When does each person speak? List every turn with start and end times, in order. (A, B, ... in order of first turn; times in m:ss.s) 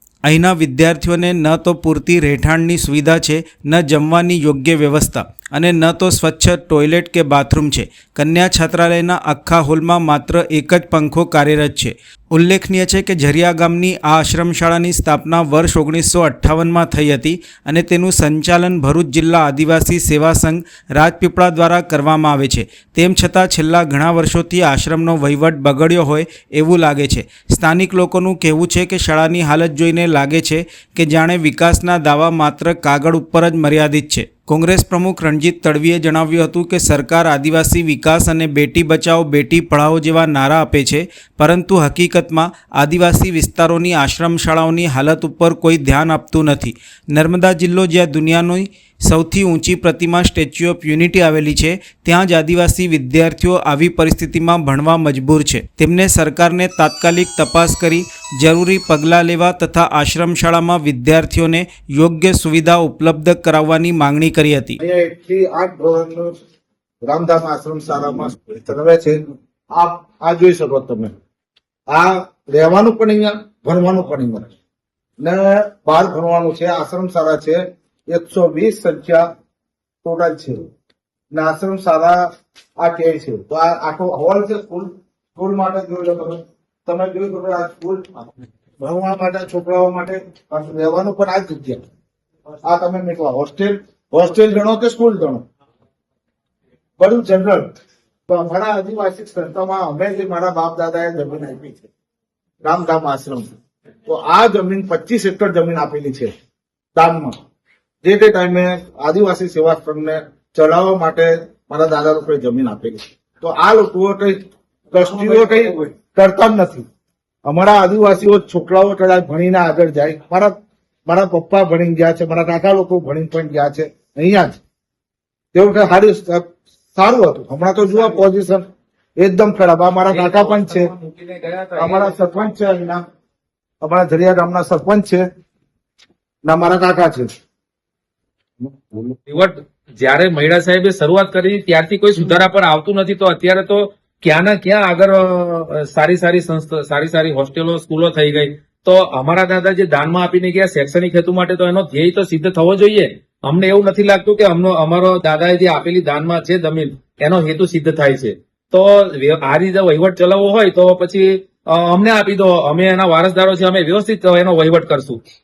0:00.2-1:04.8 A
1:04.8-1:06.3 B
1:07.0-1:11.1 B
1:11.9-1:14.5 B
1:15.2-1:19.3 B
1:20.0-1:20.7 B
1:21.3-1:22.2 B
1:22.8-1:31.8 B
1:32.6-1:35.4 B
1:37.0-1:37.7 B
1:38.3-1:41.9 B
1:42.6-1:43.5 B
1:44.0-1:46.3 B
1:46.9-1:47.3 B
1:48.0-1:56.8 B
1:55.0-1:55.8 C
1:57.4-2:00.5 B
2:01.1-2:04.6 B
2:05.5-2:08.6 B
2:09.2-2:10.9 B
2:10.1-2:12.5 C
2:11.8-2:13.0 B
2:13.8-2:15.2 B
2:16.4-2:17.3 B
2:18.6-2:19.2 B
2:19.3-2:45.2 C